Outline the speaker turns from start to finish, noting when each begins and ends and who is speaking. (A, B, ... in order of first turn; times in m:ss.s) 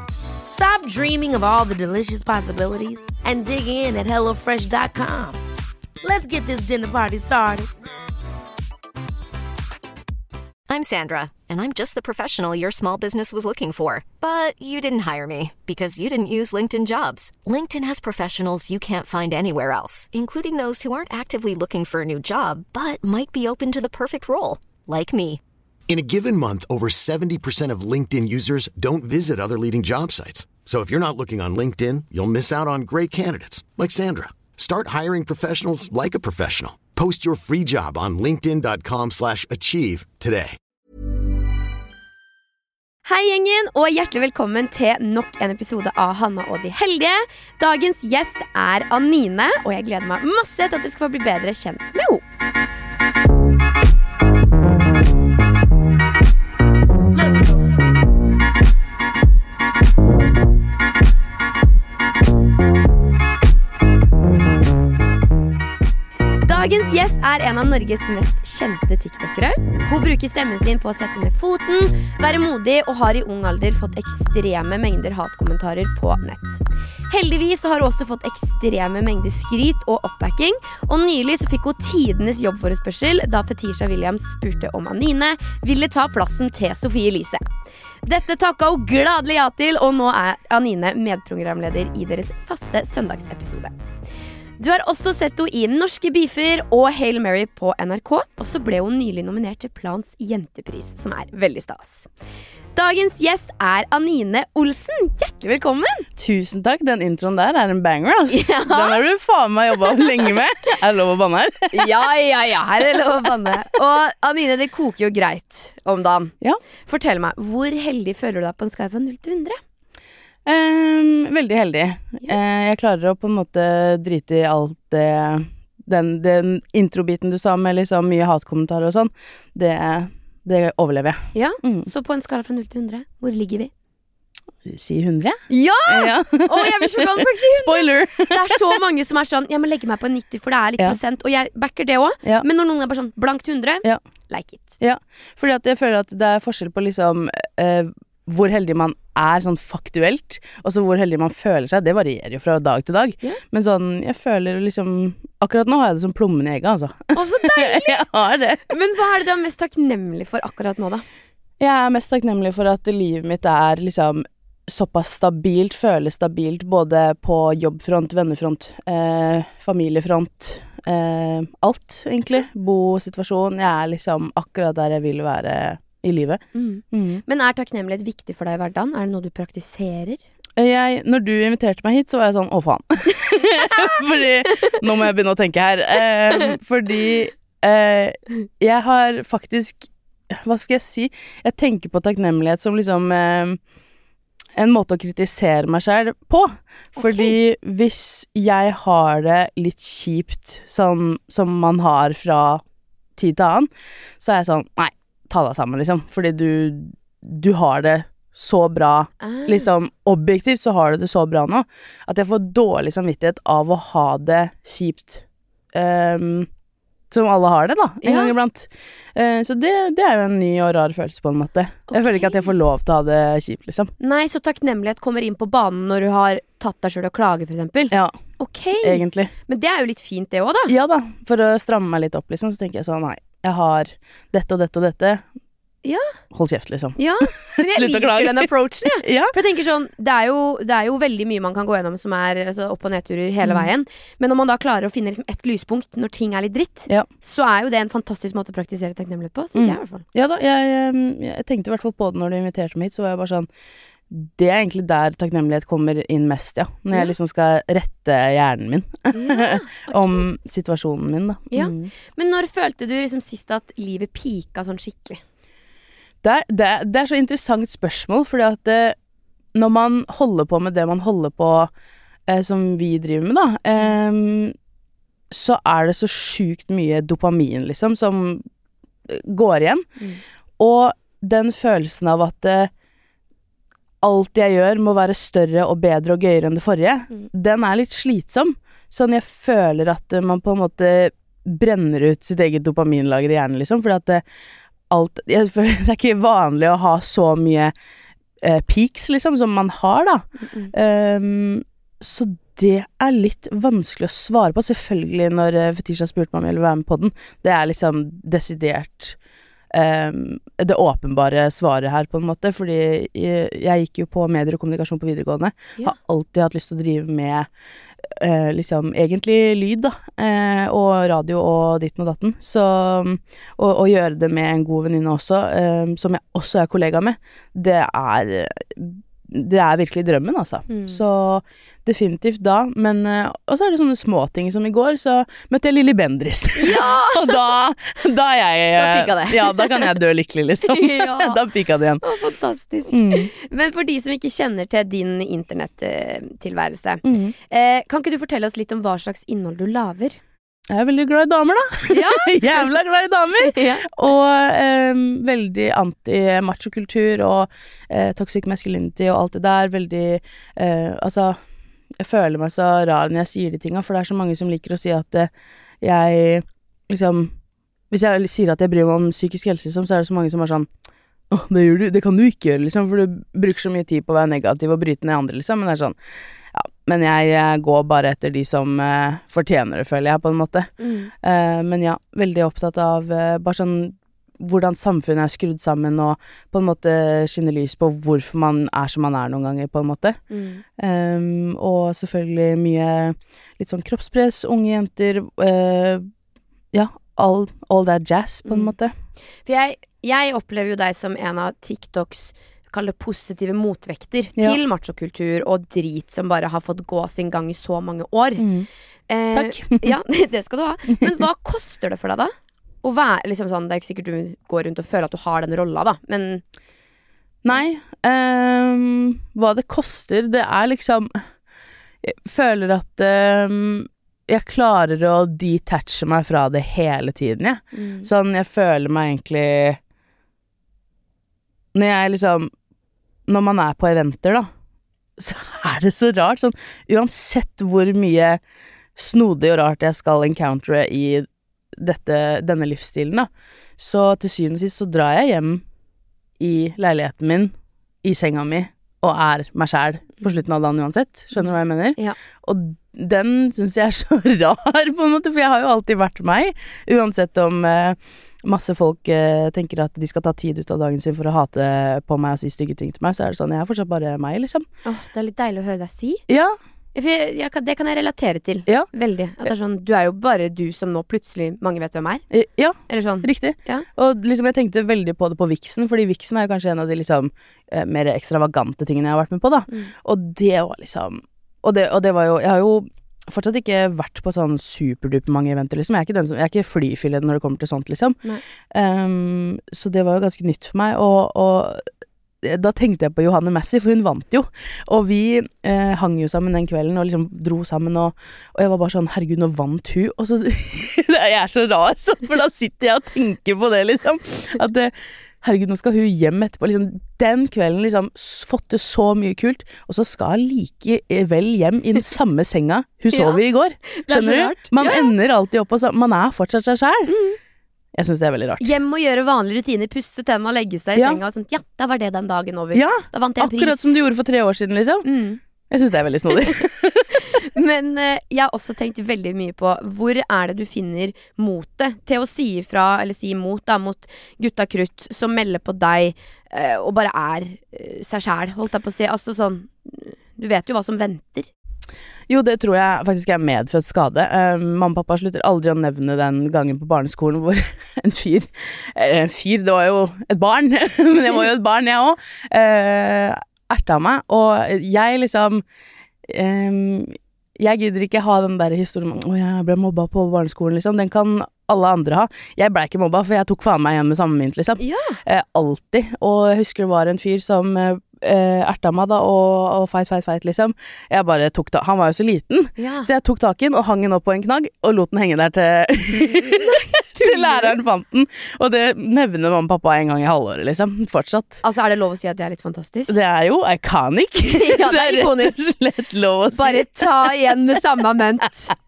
0:00.5-0:05.4 A
0:06.0-0:07.7 A
0:10.7-0:25.4 B
0:25.9-0:40.6 C
0:43.0-0:52.2 D
0:57.2-0:57.7 A
1:06.4-1:27.4 D
1:28.1-1:33.7 D
1:34.6-1:42.1 D
1:42.8-1:46.1 D
1:46.2-1:51.9 E
1:48.3-1:49.0 D
1:49.8-1:50.3 D
1:51.7-1:56.4 D
1:56.9-1:59.6 D
2:00.5-2:11.9 E
2:11.3-2:13.7 D
2:14.6-2:18.6 E
2:15.5-2:24.8 D
2:24.8-2:38.7 E
2:37.1-2:38.0 D
2:38.7-2:41.0 D
2:41.6-2:57.2 E
2:56.5-3:00.2 D
3:00.6-3:13.6 E
3:03.7-3:04.0 D
3:14.6-3:22.6 E
3:17.0-3:17.3 D
3:23.2-3:36.5 E
3:29.2-3:29.7 D
3:37.1-3:43.9 E
3:38.0-3:38.4 D
3:41.9-3:42.4 D
3:44.0-3:50.8 D
3:47.9-3:48.2 E
3:48.8-3:49.3 E
3:50.7-3:55.2 E
3:55.8-3:56.1 D
3:56.3-3:59.3 E
3:57.0-4:10.0 D
4:03.4-4:03.7 E
4:09.6-4:13.5 E
4:14.1-4:21.9 E
4:19.1-4:20.2 D
4:21.5-4:25.2 D
4:26.2-4:29.0 E
4:29.5-4:31.7 E
4:32.3-4:34.6 E
4:35.3-4:38.4 E
4:39.1-4:39.8 E
4:40.6-4:42.7 E
4:44.0-4:54.2 E
4:54.9-4:57.7 E
4:58.4-5:09.2 E
5:00.4-5:00.7 D
5:09.7-5:17.5 E
5:18.0-5:42.0 E
5:30.7-5:31.0 D
5:36.6-5:37.5 D
5:38.8-5:40.0 D
5:40.7-5:41.4 D
5:42.0-5:50.2 D
5:42.9-5:43.3 E
5:47.0-5:47.3 E
5:50.7-6:01.4 E
5:51.9-5:52.7 D
5:53.4-5:53.9 D
6:02.0-6:05.3 E
6:05.8-6:07.3 E
6:07.9-6:10.7 E
6:11.3-6:16.0 E
6:16.5-6:20.7 E
6:20.8-6:21.1 D
6:21.2-6:30.2 E
6:30.3-6:30.6 D
6:30.8-6:36.1 E
6:36.7-6:38.9 E
6:38.5-6:38.7 D
6:39.5-6:48.5 D
6:48.4-6:48.7 E
6:49.1-6:56.4 D
6:49.3-6:49.9 E
6:57.4-7:01.1 E
7:02.0-7:09.8 E
7:07.7-7:08.1 D
7:11.7-7:12.5 E
7:13.3-7:14.5 E
7:15.2-7:18.4 E
7:19.0-7:25.6 E
7:26.4-7:44.6 E
7:31.4-7:32.2 D
7:44.8-7:46.2 D
7:46.3-7:46.6 E
7:47.0-7:52.2 D
7:52.3-8:11.8 E
7:52.9-7:53.9 D
8:12.4-8:37.2 E
8:33.1-8:35.1 D
8:37.1-8:37.4 D
8:37.9-8:38.7 E
8:38.6-8:44.0 D
8:41.0-8:41.2 E
8:42.7-8:45.1 E
8:45.0-8:45.4 D
8:45.7-8:47.4 E
8:46.3-8:46.6 D
8:47.2-9:01.5 D
9:02.3-9:15.6 E
9:16.3-9:41.6 E
9:24.8-9:25.2 D
9:32.8-9:33.1 D
9:36.3-9:37.8 D
9:41.6-9:43.2 D
9:43.1-9:47.3 E
9:44.5-9:45.6 D
9:46.5-9:48.8 D